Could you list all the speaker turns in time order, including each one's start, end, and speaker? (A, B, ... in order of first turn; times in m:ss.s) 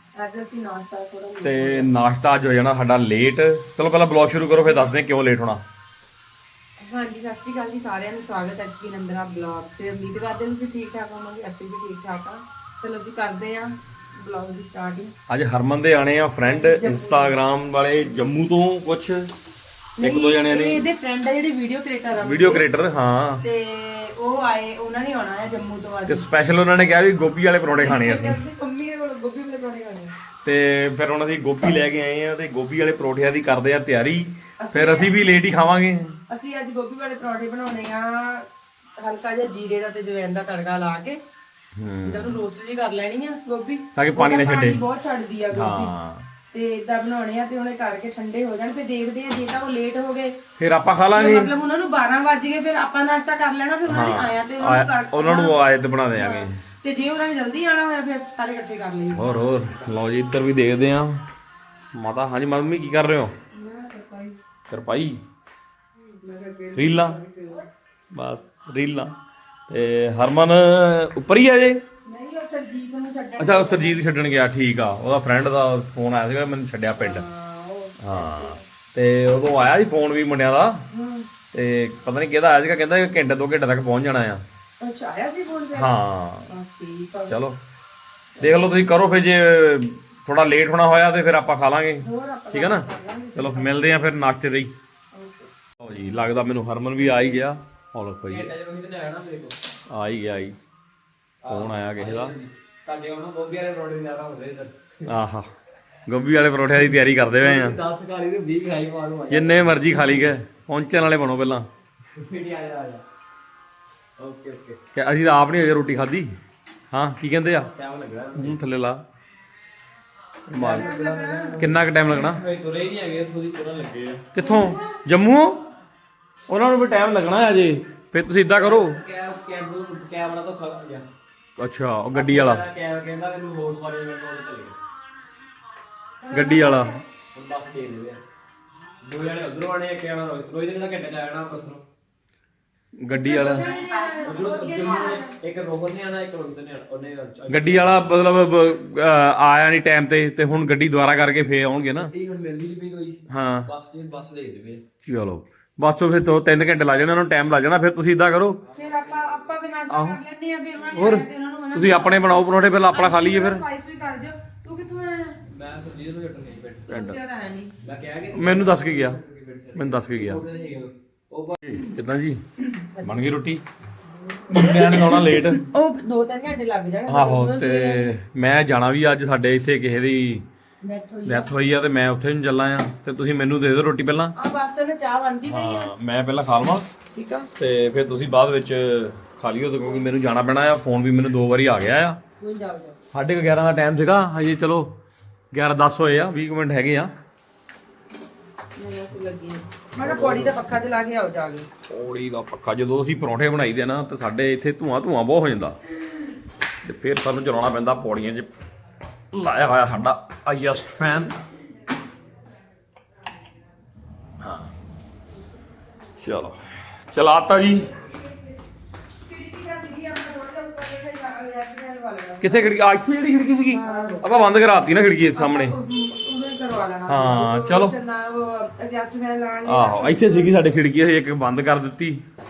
0:00.1-0:01.9 A
0:01.4-0:05.6 B
0:06.8-0:15.1 A
0:15.3-0:19.3 B
0:16.6-0:17.4 A
0:20.0-0:20.8 B
0:20.0-0:22.6 A
0:22.2-0:23.4 B
0:23.4-0:26.2 A
0:26.1-0:28.4 B
0:27.8-0:30.1 A
0:30.4-0:36.2 B
0:34.6-0:35.1 A
0:36.3-0:41.2 A
0:41.8-0:42.4 B
0:42.0-0:45.9 A
0:44.0-0:44.8 B
0:45.5-0:46.3 B
0:46.5-0:50.4 A
0:50.6-0:51.5 B
0:51.1-0:55.6 A
0:53.9-0:56.6 B
0:56.1-0:59.3 A
0:59.1-1:01.2 B
1:01.9-1:03.3 B
1:03.5-1:04.4 A
1:04.7-1:05.2 B
1:06.0-1:07.6 A
1:06.8-1:07.2 B
1:08.1-1:09.1 B
1:09.7-1:11.8 B
1:12.0-1:14.0 A
1:13.4-1:17.2 B
1:17.0-1:18.6 A
1:18.0-1:20.8 B
1:20.9-1:21.3 A
1:21.5-1:24.4 B
1:24.8-1:26.0 A
1:25.7-1:26.5 B
1:26.5-1:27.4 A
1:27.3-1:27.6 B
1:28.4-1:34.7 B
1:32.0-1:34.0 A
1:35.1-1:35.5 A
1:35.8-1:38.6 B
1:37.0-1:37.3 A
1:38.3-1:39.5 C
1:39.9-1:40.6 B
1:41.4-1:42.4 B
1:41.5-1:44.7 C
1:45.1-1:45.5 B
1:46.1-1:47.8 B
1:47.2-1:50.3 C
1:49.3-1:51.7 B
1:52.2-1:53.0 C
1:54.2-1:54.8 C
1:54.9-1:56.3 B
1:56.9-1:57.7 B
1:57.8-1:58.6 C
1:58.3-1:59.0 B
2:00.5-2:00.9 B
2:00.5-2:04.2 C
2:00.6-2:01.6 A
2:01.6-2:02.4 B
2:04.3-2:05.6 B
2:04.4-2:04.8 A
2:06.5-2:09.0 B
2:08.6-2:11.0 C
2:11.6-2:12.6 B
2:12.1-2:14.8 C
2:16.2-2:17.0 A
2:16.3-2:17.0 B
2:17.3-2:18.2 C
2:19.0-2:21.8 C
2:23.0-2:23.7 B
2:23.1-2:25.3 A
2:24.2-2:28.0 C
2:27.5-2:32.1 B
2:32.0-2:33.2 C
2:33.3-2:33.7 B
2:34.0-2:34.8 C
2:35.1-2:38.6 B
2:38.7-2:42.4 A
2:39.9-2:40.2 B
2:41.0-2:43.6 B
2:42.9-2:45.4 A
2:45.5-2:46.8 C
2:46.9-2:47.2 B
2:46.9-2:47.7 A
2:47.8-2:51.5 C
2:48.3-2:49.2 B
2:49.7-2:50.4 B
2:51.6-2:52.4 B
2:53.0-2:53.2 A
2:53.0-2:53.6 B
2:54.5-2:55.6 B
2:54.5-2:58.1 A
2:57.1-3:00.5 B
3:00.8-3:01.5 A
3:01.2-3:04.3 B
3:04.3-3:05.9 A
3:05.4-3:06.9 B
3:07.1-3:07.5 A
3:07.6-3:12.2 B
3:12.4-3:13.0 A
3:13.1-3:14.9 B
3:15.5-3:17.1 B
3:18.8-3:21.7 A
3:20.0-3:20.6 B
3:21.9-3:25.8 B
3:26.8-3:28.5 B
3:29.3-3:31.4 B
3:34.4-3:34.7 B
3:36.2-3:37.9 B
3:39.2-3:42.7 A
3:42.4-3:45.8 B
3:43.7-3:44.2 A
3:45.3-3:50.7 A
3:47.1-3:47.9 B
3:49.6-3:52.2 B